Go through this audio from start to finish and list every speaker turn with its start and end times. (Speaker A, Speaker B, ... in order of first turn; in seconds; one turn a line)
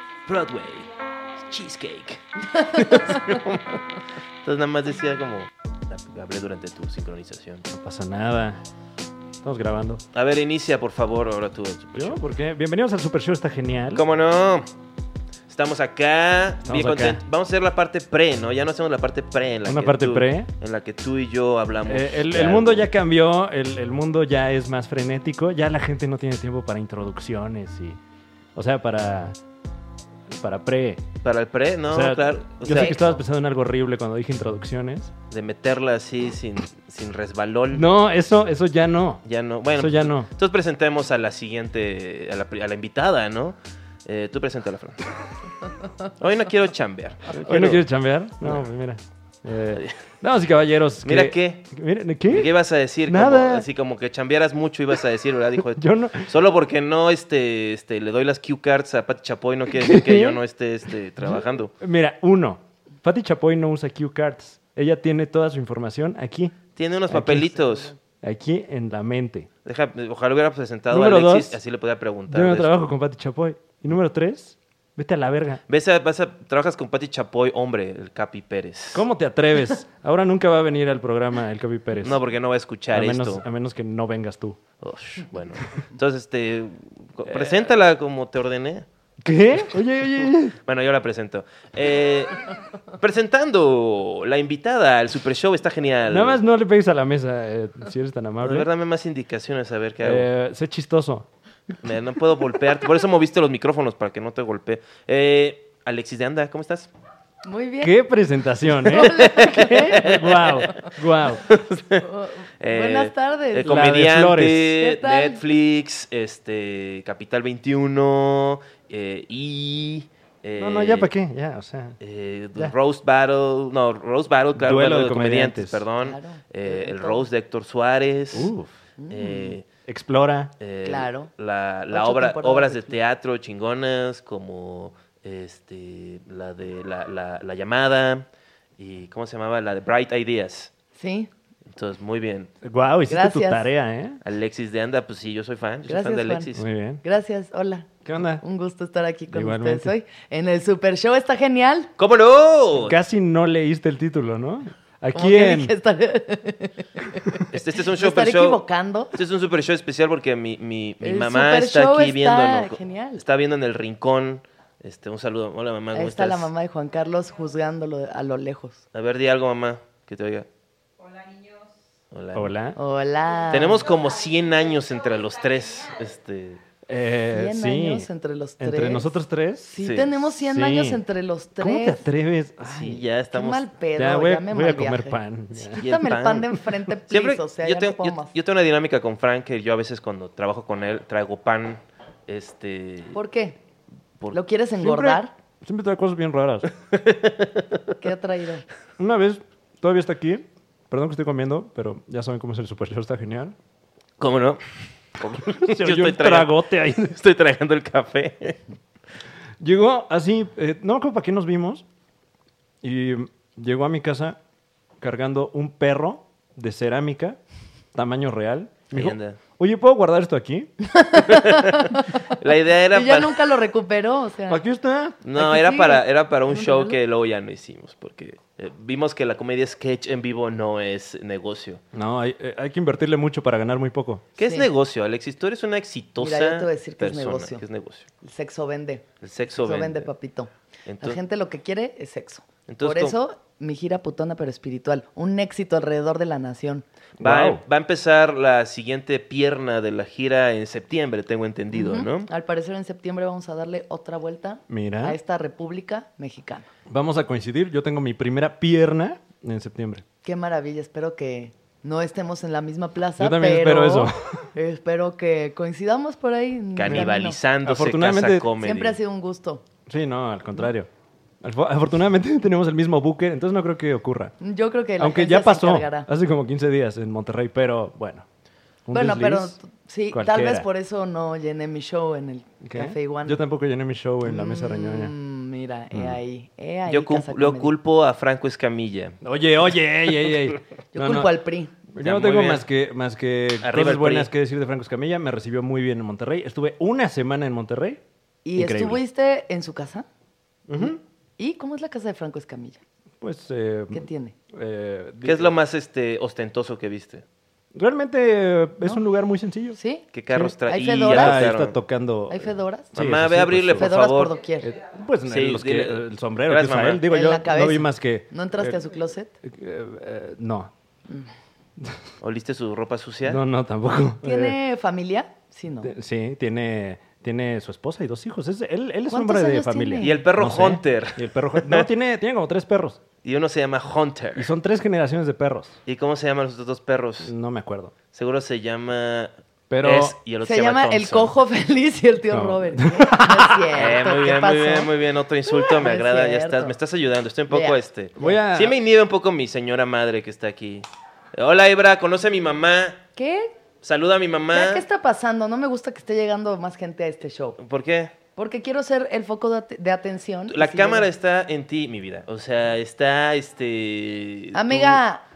Speaker A: 0.2-7.7
Speaker B: 2.7-3.0
Speaker C: 7.7-8.6
Speaker C: 9.4-10.0
Speaker A: 10.1-12.2
Speaker C: 11.9-14.0
Speaker A: 13.9-14.7
Speaker A: 15.5-22.9
Speaker C: 16.6-17.2
Speaker C: 19.6-20.5
Speaker C: 21.9-28.0
Speaker C: 28.5-29.4
Speaker C: 30.3-31.0
Speaker A: 31.2-33.1
Speaker C: 31.9-35.1
Speaker B: 32.6-33.2
Speaker A: 35.3-37.9
Speaker C: 37.7-39.2
Speaker A: 39.2-45.0
Speaker C: 39.7-40.3
Speaker A: 46.2-47.9
Speaker C: 47.3-52.5
Speaker A: 49.7-50.0
Speaker A: 51.0-51.6
Speaker A: 52.3-61.7
Speaker C: 53.0-53.6
Speaker C: 55.8-56.3
Speaker C: 59.7-60.4
Speaker C: 61.2-66.5
Speaker A: 66.8-67.9
Speaker C: 67.1-67.4
Speaker B: 67.5-67.9
Speaker C: 68.2-69.5
Speaker A: 69.6-72.7
Speaker C: 70.9-71.6
Speaker C: 72.3-75.6
Speaker A: 75.7-79.0
Speaker C: 78.9-82.2
Speaker A: 82.0-83.4
Speaker C: 82.9-84.6
Speaker A: 84.8-88.8
Speaker C: 87.2-87.7
Speaker C: 89.2-90.5
Speaker A: 90.5-96.4
Speaker C: 96.1-98.7
Speaker A: 98.4-100.3
Speaker C: 100.0-101.3
Speaker A: 101.8-106.9
Speaker B: 107.4-108.0
Speaker C: 107.8-111.4
Speaker B: 108.7-110.1
Speaker A: 109.0-110.9
Speaker A: 111.4-112.0
Speaker B: 112.0-113.8
Speaker A: 112.6-121.1
Speaker C: 113.5-114.8
Speaker B: 114.7-115.4
Speaker C: 120.6-122.0
Speaker A: 122.0-128.5
Speaker C: 124.5-125.8
Speaker B: 126.0-127.2
Speaker C: 128.3-128.7
Speaker B: 129.0-129.6
Speaker A: 129.1-129.6
Speaker C: 129.9-130.5
Speaker A: 130.6-138.2
Speaker B: 130.8-131.3
Speaker B: 131.9-133.0
Speaker A: 138.8-140.7
Speaker B: 140.9-141.3
Speaker A: 141.7-142.5
Speaker C: 142.6-144.2
Speaker B: 143.1-143.7
Speaker A: 144.2-146.6
Speaker B: 145.9-146.5
Speaker C: 146.5-147.0
Speaker B: 147.0-151.9
Speaker C: 148.0-148.4
Speaker C: 149.3-149.9
Speaker A: 152.0-152.9
Speaker C: 152.8-155.7
Speaker B: 155.1-157.4
Speaker A: 157.5-158.6
Speaker B: 158.0-159.1
Speaker A: 159.1-166.5
Speaker B: 161.0-163.2
Speaker B: 165.9-168.8
Speaker A: 168.9-170.5
Speaker A: 172.1-172.5
Speaker C: 172.3-172.8
Speaker B: 172.7-173.9
Speaker A: 173.5-176.6
Speaker C: 176.9-178.1
Speaker B: 177.3-179.1
Speaker C: 178.6-179.8
Speaker B: 179.7-182.0
Speaker A: 179.8-180.1
Speaker C: 180.4-181.0
Speaker C: 181.6-183.0
Speaker A: 182.6-183.7
Speaker B: 183.3-188.3
Speaker C: 183.9-185.8
Speaker A: 185.8-186.6
Speaker A: 187.1-193.2
Speaker B: 193.1-193.6
Speaker B: 194.3-195.3
Speaker C: 194.8-196.7
Speaker A: 196.9-198.0
Speaker B: 198.0-198.7
Speaker C: 199.0-203.6
Speaker A: 204.2-204.6
Speaker A: 205.1-208.6
Speaker C: 205.5-207.2
Speaker C: 209.6-211.8
Speaker C: 212.8-214.4
Speaker C: 215.0-217.4
Speaker C: 217.9-220.7
Speaker A: 218.9-219.4
Speaker B: 220.9-222.0
Speaker A: 221.2-223.3
Speaker B: 222.9-224.6
Speaker C: 224.5-225.2
Speaker A: 225.2-231.8
Speaker B: 225.3-227.0
Speaker C: 231.9-234.2
Speaker A: 234.4-238.1
Speaker B: 234.4-234.7
Speaker B: 236.2-237.6
Speaker B: 238.2-246.8
Speaker A: 239.2-240.1
Speaker A: 240.8-241.2
Speaker A: 242.7-243.2
Speaker C: 247.2-247.6
Speaker A: 247.2-252.3
Speaker B: 251.7-256.6
Speaker C: 254.7-255.2
Speaker C: 256.9-260.0
Speaker B: 260.2-267.4
Speaker C: 263.2-264.5
Speaker A: 266.8-269.0
Speaker C: 267.6-268.5
Speaker B: 268.6-269.6
Speaker C: 269.9-270.9
Speaker C: 271.4-274.3
Speaker B: 274.4-276.1
Speaker C: 275.0-278.2
Speaker C: 278.9-279.6
Speaker B: 278.9-283.4
Speaker C: 280.1-280.6
Speaker C: 282.6-285.1
Speaker B: 284.2-287.7
Speaker A: 286.9-289.2
Speaker C: 289.2-291.4
Speaker B: 290.9-291.7
Speaker C: 291.9-298.0
Speaker A: 292.0-292.6
Speaker A: 293.6-294.3
Speaker B: 298.4-300.1
Speaker C: 298.6-299.0
Speaker C: 300.7-301.0
Speaker B: 300.8-302.8
Speaker C: 303.2-305.5
Speaker B: 303.9-304.3
Speaker A: 305.2-307.2
Speaker C: 307.7-309.8
Speaker B: 309.7-310.1
Speaker A: 310.1-311.8
Speaker C: 310.3-310.5
Speaker B: 310.6-311.5
Speaker C: 311.1-313.9
Speaker B: 312.3-312.9
Speaker A: 312.9-314.3
Speaker B: 313.8-314.7
Speaker C: 314.6-318.8
Speaker A: 315.2-317.0
Speaker B: 317.1-319.3
Speaker C: 319.4-320.7
Speaker A: 322.2-323.4
Speaker C: 323.2-324.6
Speaker B: 324.2-325.9
Speaker C: 325.8-333.0
Speaker B: 329.1-330.2
Speaker A: 330.0-331.9
Speaker A: 333.2-334.5
Speaker C: 334.4-335.8
Speaker A: 335.9-337.3
Speaker C: 337.2-337.9
Speaker A: 338.1-341.3
Speaker C: 339.7-340.1
Speaker B: 340.4-344.9
Speaker C: 342.3-343.6
Speaker A: 343.7-353.0
Speaker B: 345.5-346.8
Speaker B: 347.5-347.8
Speaker C: 348.2-348.8
Speaker B: 353.1-353.5
Speaker A: 353.8-354.8
Speaker B: 354.5-357.6
Speaker A: 357.6-358.1
Speaker B: 358.4-361.1
Speaker A: 360.5-365.0
Speaker B: 364.5-365.2